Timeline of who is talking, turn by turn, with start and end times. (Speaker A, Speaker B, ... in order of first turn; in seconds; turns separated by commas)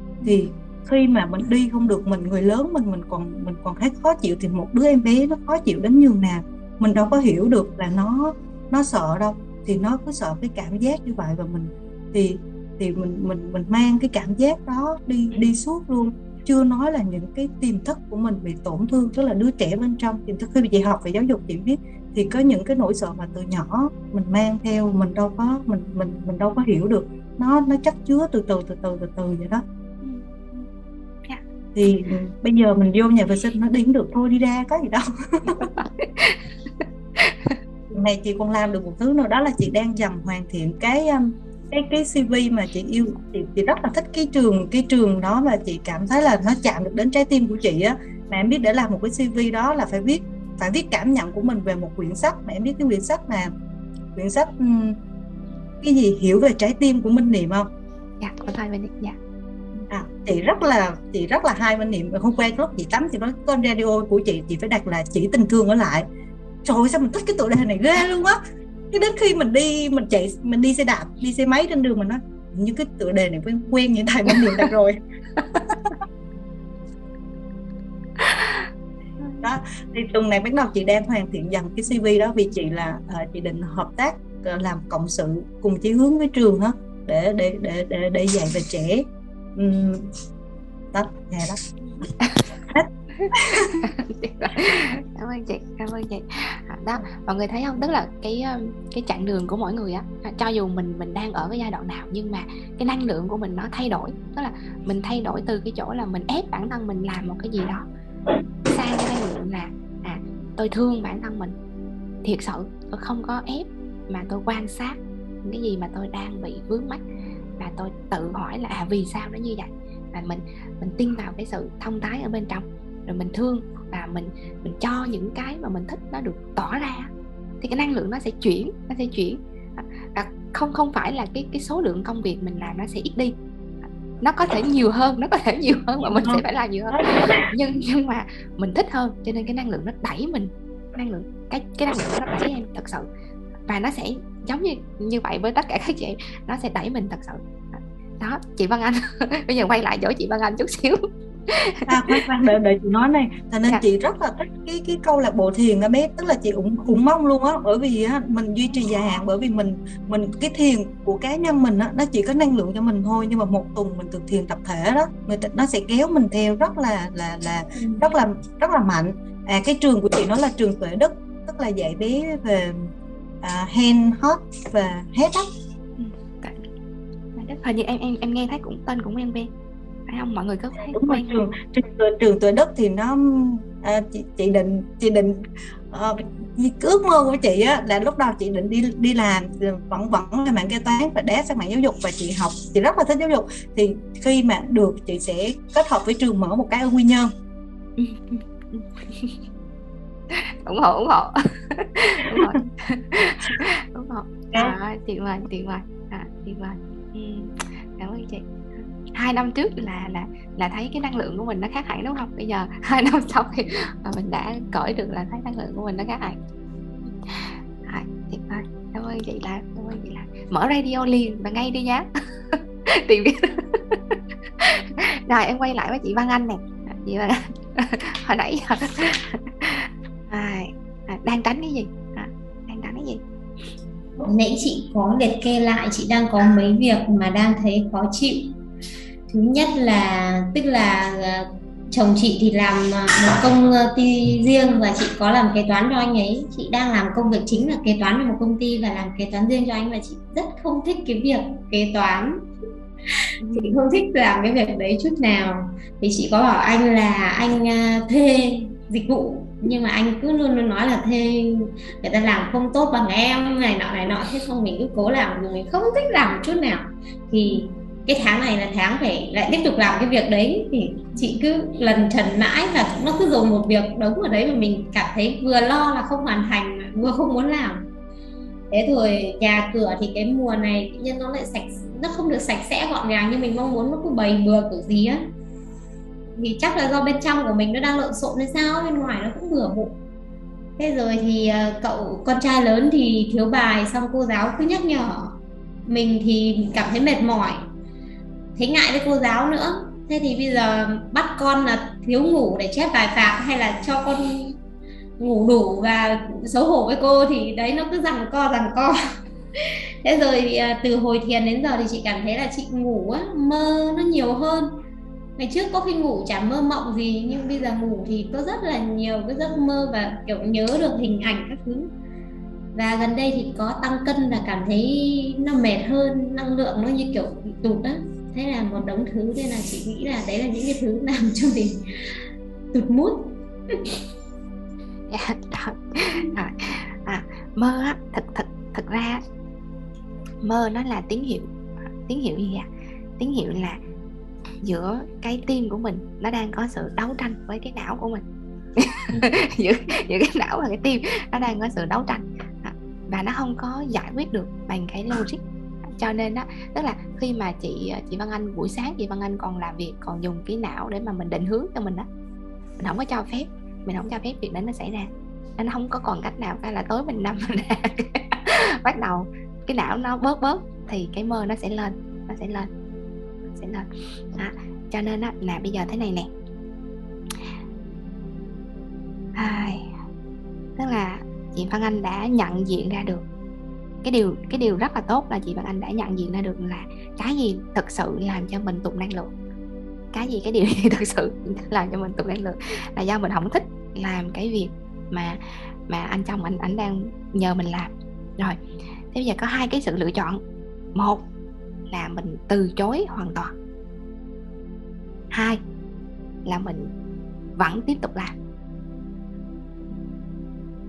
Speaker A: 0.2-29.6, Speaker B: 30.0-30.7, Speaker A: 31.8-35.7, Speaker B: 35.5-37.6, Speaker A: 37.9-53.5, Speaker A: 54.1-55.0, Speaker A: 55.8-57.7, Speaker B: 58.2-59.2, Speaker A: 59.9-66.1, Speaker A: 66.7-68.4, Speaker A: 68.9-75.0, Speaker B: 78.2-78.7, Speaker A: 79.4-90.1, Speaker A: 90.9-91.6, Speaker A: 92.7-93.8, Speaker B: 93.2-107.8, Speaker B: 108.7-111.5, Speaker B: 112.2-117.0, Speaker B: 117.6-127.1, Speaker B: 127.6-133.3, Speaker B: 134.2-143.1, Speaker A: 136.0-137.4, Speaker B: 143.7-152.2, Speaker A: 151.9-172.9, Speaker A: 173.4-175.5, Speaker B: 176.0-176.7, Speaker B: 177.4-179.5, Speaker B: 180.1-181.4, Speaker A: 180.8-185.3, Speaker A: 185.9-197.3, Speaker B: 198.0-199.4, Speaker B: 200.3-216.4, Speaker B: 217.0-233.2, Speaker C: 234.2-238.6, Speaker C: 239.3-252.4, Speaker B: 253.4-253.8, Speaker C: 253.5-277.8, Speaker C: 278.7-285.2, Speaker C: 286.4-290.0, Speaker C: 290.8-297.6, Speaker C: 298.6-304.6, Speaker C: 305.2-309.0, Speaker C: 309.6-314.7, Speaker C: 315.4-321.9, Speaker C: 322.7-331.8, Speaker C: 332.7-333.8, Speaker B: 335.1-339.2, Speaker B: 340.4-341.5, Speaker B: 342.1-342.7, Speaker B: 343.2-343.8, Speaker B: 344.6-348.2, Speaker B: 348.8-362.1, Speaker B: 362.8-372.7, Speaker B: 373.5-376.3, Speaker B: 379.4-379.9, Speaker B: 380.8-383.2, Speaker B: 384.0-389.3, Speaker B: 390.1-398.6, Speaker B: 399.1-400.4, Speaker B: 400.9-401.2, Speaker B: 401.9-403.5, Speaker B: 405.3-405.6, Speaker B: 406.5-406.9, Speaker B: 407.6-408.4